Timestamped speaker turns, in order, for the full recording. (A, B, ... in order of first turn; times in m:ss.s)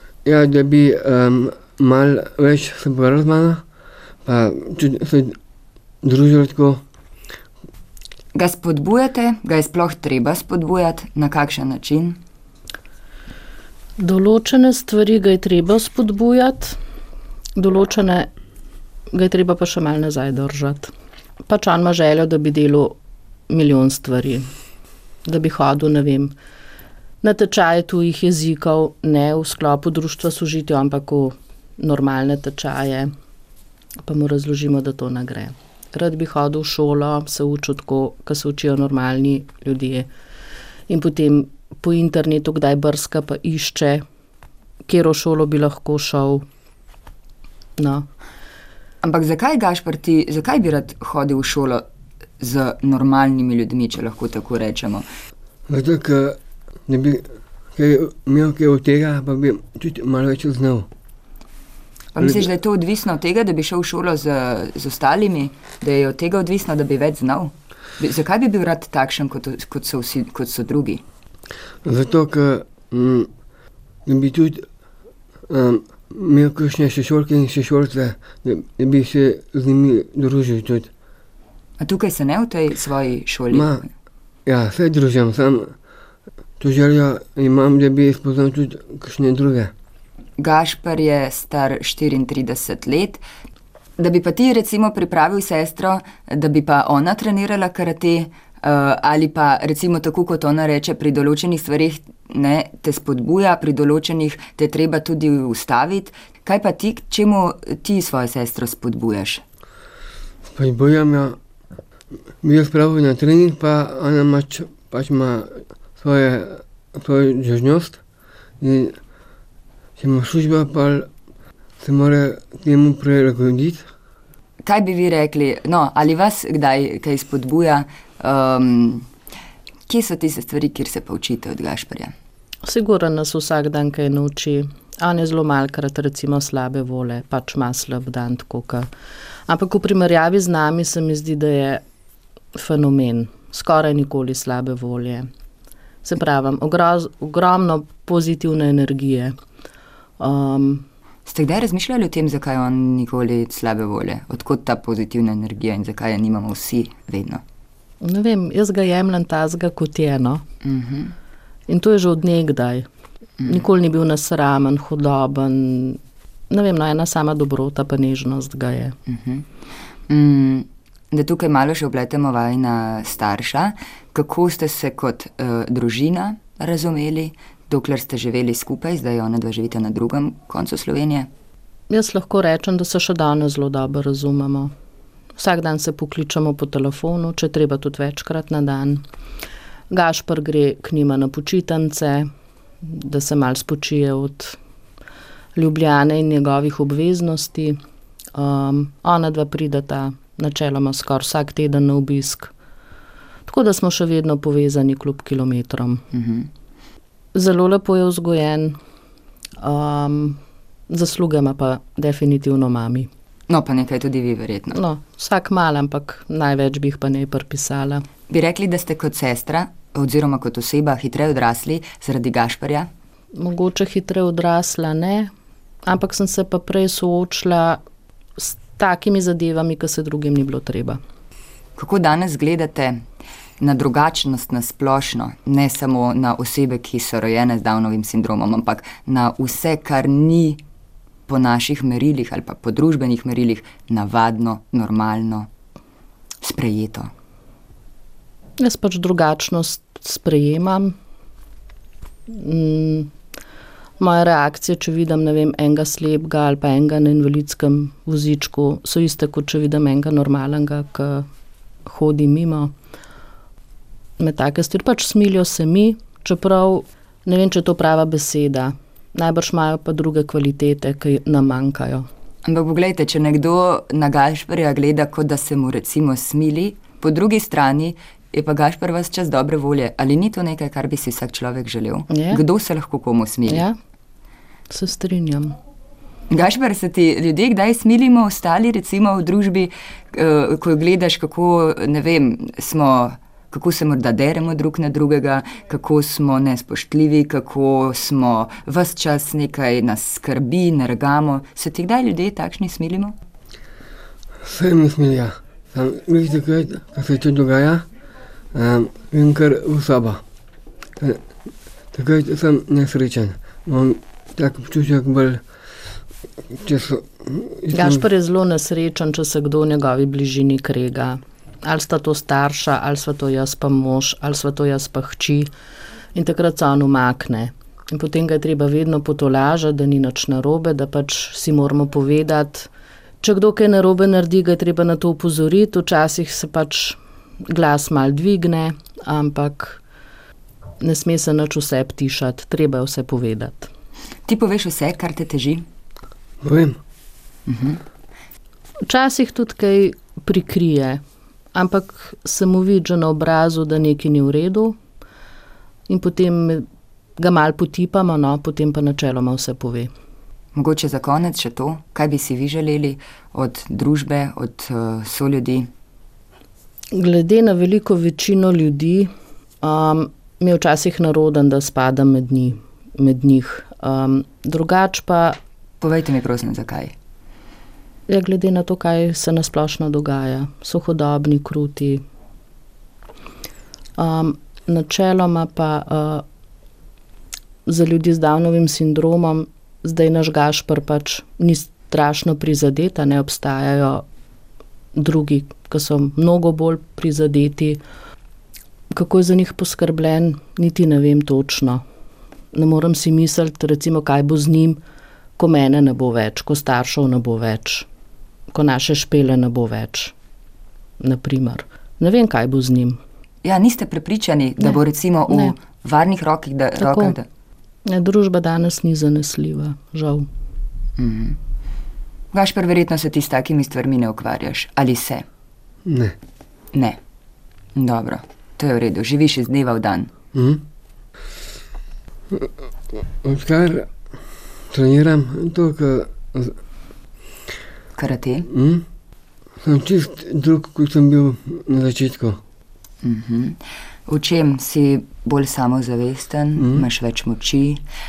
0:00.2-0:03.6 A
0:04.2-0:05.4 A
0:06.0-0:06.8 A
0:08.4-0:12.2 B
0:14.0-0:16.8 C
0:17.6-0:18.3 C
0:19.1-0:20.9 C
0:21.5-0:23.0 C
0:23.5-0:24.5 C
0:25.3-0:26.3 C
0:27.2-0:33.1 C
0:34.0-0:40.1 C
0:40.9-0:44.0 C
0:44.9-0:46.4 C
0:47.8-0:48.1 C
0:49.0-0:51.8 B
0:52.4-0:55.0 B
0:55.7-1:00.9 A
1:02.1-1:11.0 B
1:02.2-1:02.5 A
1:11.8-1:13.3 A
1:14.1-1:14.7 A
1:15.5-1:20.9 A
1:21.8-1:23.9 B
1:23.5-1:23.8 A
1:24.5-1:25.7 A
1:26.6-1:29.7 A
1:30.4-1:33.2 B
1:34.0-1:49.4 B
1:50.5-1:51.4 A
1:52.4-1:58.0 A
1:58.6-1:59.0 A
2:00.0-2:01.1 A
2:01.8-2:03.9 A
2:04.6-2:09.1 B
2:09.9-2:12.1 B
2:12.6-2:18.9 C
2:19.5-2:21.8 C
2:22.6-2:25.3 C
2:26.0-2:29.3 C
2:30.2-2:30.8 C
2:31.3-2:37.4 B
2:38.0-2:40.4 C
2:40.6-2:41.1 B
2:41.7-2:42.8 C
2:43.4-2:46.0 C
2:46.5-2:49.0 C
2:49.1-2:49.5 B
2:50.1-3:01.3 B
3:01.9-3:04.7 C
3:05.4-3:09.0 C
3:09.9-3:12.3 C
3:12.8-3:14.6 C
3:15.6-3:17.8 C
3:18.4-3:22.5 C
3:23.5-3:26.0 C
3:26.1-3:26.5 B
3:27.4-3:28.8 C
3:29.6-3:33.1 C
3:33.5-3:34.8 B
3:34.7-3:38.0 C
3:38.3-3:42.9 B
3:43.4-3:45.3 C
3:45.9-3:47.8 C
3:48.4-3:51.0 C
3:51.8-3:53.0 B
3:53.6-4:00.6 B
4:01.3-4:05.5 B
4:06.4-4:07.1 B
4:08.6-4:11.0 C
4:12.3-4:13.1 C
4:14.0-4:21.3 C
4:21.9-4:22.7 C
4:24.2-4:32.1 C
4:32.5-4:43.6 B
4:42.1-4:42.4 C
4:43.5-4:43.8 C
4:44.7-4:45.6 C
4:46.3-5:03.2 B
5:04.4-5:07.9 A
5:08.5-5:10.2 A
5:11.9-5:15.4 A
5:16.5-5:18.0 A
5:17.7-5:25.5 C
5:26.2-5:32.7 C
5:33.2-5:39.8 C
5:40.8-5:43.7 C
5:44.3-5:45.6 B
5:46.4-5:46.8 A
5:47.5-5:47.8 B
5:48.9-5:51.0 C
5:51.5-5:54.8 C
5:55.9-5:56.7 C
5:57.2-5:59.9 C
6:00.6-6:05.7 B
6:06.9-6:09.1 C
6:09.6-6:15.4 C
6:15.8-6:16.9 B
6:18.1-6:22.0 C
6:24.0-6:26.2 C
6:27.7-6:34.0 C
6:35.0-6:37.8 C
6:38.9-6:41.8 C
6:42.5-6:44.8 C
6:45.4-6:47.9 C
6:48.5-6:50.1 C
6:51.0-6:53.0 C
6:53.4-6:57.3 B
6:54.6-6:55.5 C
6:56.8-6:57.2 C
6:57.9-7:00.3 C
7:01.0-7:01.4 B
7:02.3-7:05.2 B
7:05.8-7:06.1 A
7:07.8-7:10.1 B
7:10.3-7:10.6 A
7:13.2-7:13.9 A
7:14.7-7:16.6 A
7:18.0-7:18.5 B
7:18.5-7:18.8 A
7:19.6-7:22.4 A
7:23.0-7:27.8 B
7:26.6-7:26.9 A